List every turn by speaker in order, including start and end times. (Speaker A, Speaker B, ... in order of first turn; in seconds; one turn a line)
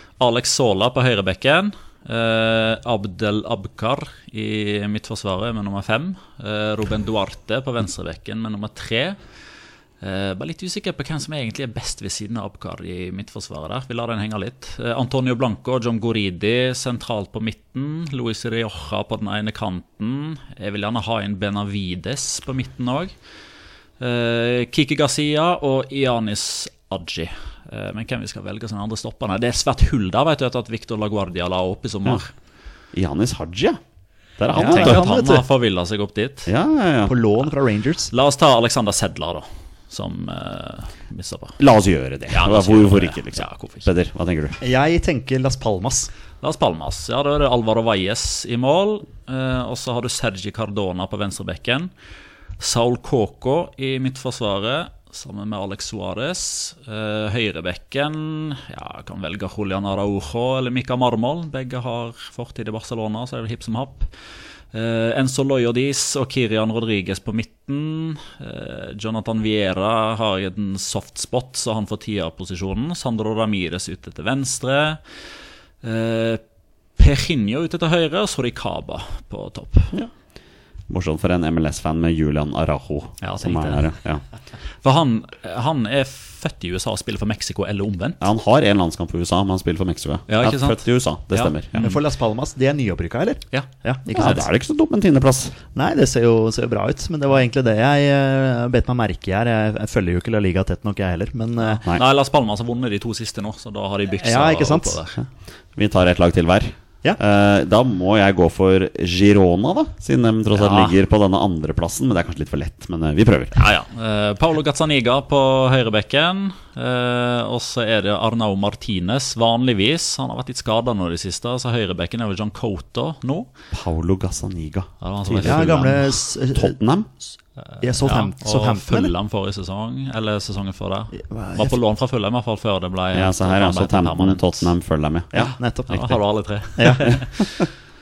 Speaker A: 0.2-9.2
Speaker A: 10.0-23.1
Speaker A: 24.0-32.3
Speaker B: 32.9-33.8
Speaker B: 34.4-35.0
Speaker A: 34.5-36.5
Speaker C: 34.5-35.4
Speaker B: 36.5-37.1
Speaker C: 37.1-38.1
Speaker A: 38.1-41.6
Speaker B: 41.6-44.6
Speaker A: 42.3-43.9
Speaker C: 44.6-46.1
Speaker A: 46.4-51.9
Speaker A: 52.6-64.1
Speaker A: 64.7-75.0
Speaker A: 75.8-76.4
Speaker A: 77.0-79.9
Speaker B: 80.9-84.2
Speaker A: 83.2-83.9
Speaker A: 84.8-88.2
Speaker B: 88.2-91.9
Speaker A: 90.3-92.0
Speaker C: 91.8-94.5
Speaker A: 93.5-94.4
Speaker B: 94.1-95.6
Speaker C: 95.7-101.8
Speaker A: 101.6-105.2
Speaker C: 104.2-105.0
Speaker B: 105.8-113.5
Speaker C: 110.6-110.9
Speaker A: 113.5-123.5
Speaker B: 123.7-127.1
Speaker A: 125.0-126.0
Speaker C: 125.4-126.8
Speaker C: 127.8-129.1
Speaker A: 127.8-134.7
Speaker C: 131.1-131.8
Speaker B: 133.1-135.5
Speaker C: 135.4-136.2
Speaker A: 135.4-137.7
Speaker C: 136.8-137.3